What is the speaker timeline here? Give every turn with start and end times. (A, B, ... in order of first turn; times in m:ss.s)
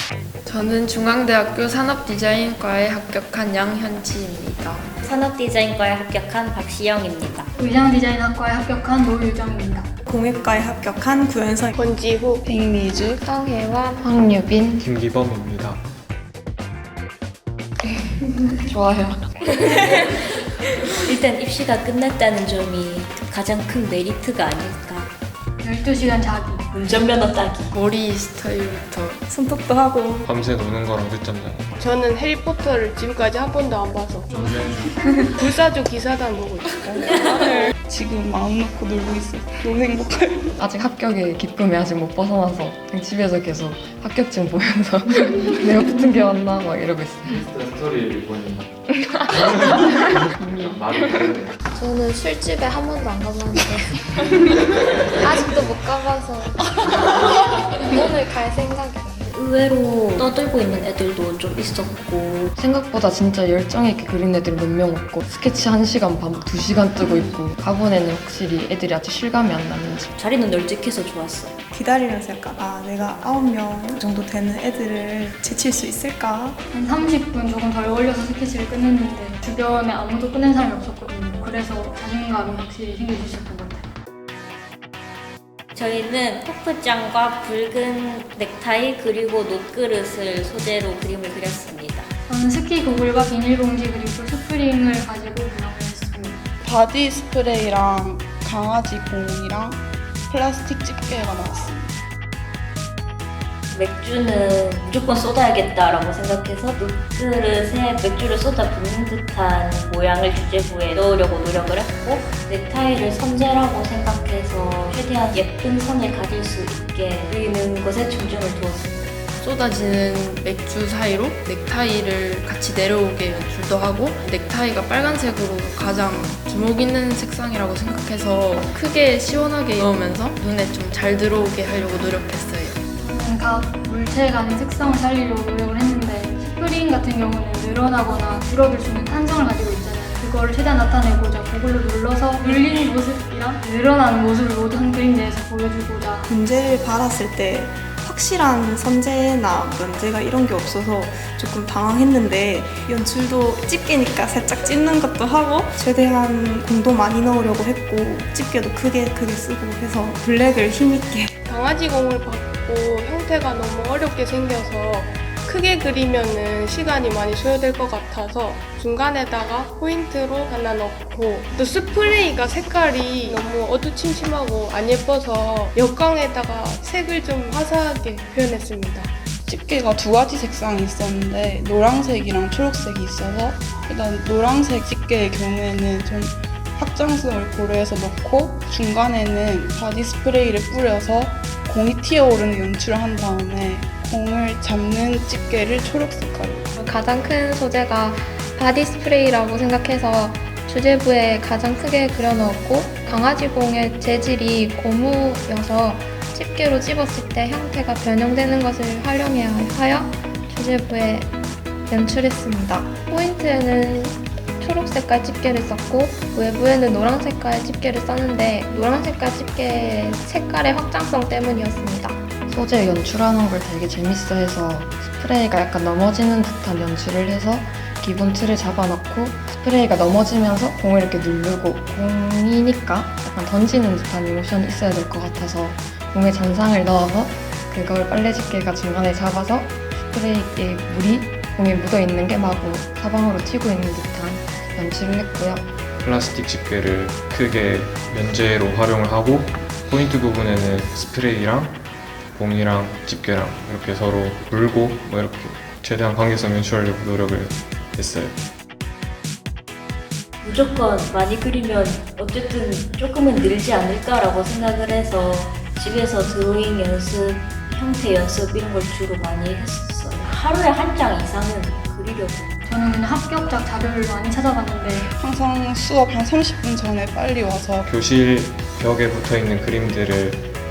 0:00.5-0:04.9 A
0:05.0-0:07.5 B
0:07.6-0:09.9 C
0:10.0-0:11.8 D
0:11.8-0:12.4 E
0:12.4-0:13.2 F
0:13.2-0:14.0 G
0:14.0-0:14.8 H
0:14.8-0:15.8 I
0:17.8-0:19.8 H
0:21.1-0:25.1 B
0:25.6-0:26.7 C
0:26.7-0:27.7 B
0:27.9-0:28.4 A
0:28.4-0:29.2 I
0:29.3-0:30.3 D
0:30.3-0:31.7 I
0:31.8-0:34.4 E
0:34.6-0:34.9 I
0:35.3-0:37.7 E
0:36.7-0:40.6 F
0:40.6-0:47.4 H
0:47.3-0:48.7 I
0:49.0-0:51.2 H
0:50.4-0:51.6 I
0:51.7-0:54.2 G
0:55.1-0:59.3 G
0:59.3-1:02.5 B
1:02.6-1:10.1 H
1:10.2-1:11.6 B
1:11.7-1:16.6 D
1:16.7-1:23.9 C
1:25.8-1:32.1 B
1:32.3-1:36.4 C
1:36.6-1:41.9 F
1:43.7-1:59.2 B
1:59.4-2:12.8 A
2:13.0-2:26.3 C
2:26.3-2:41.3 D
2:41.5-2:59.1 E
2:59.5-3:16.7 F
3:16.8-3:31.3 G
3:31.9-3:42.2 G
3:42.5-4:05.7 H
4:06.0-4:11.8 I
4:12.4-4:18.4 I
4:20.4-4:32.7 B
4:32.6-4:35.1 C
4:35.2-4:37.9 F
4:37.9-4:40.4 I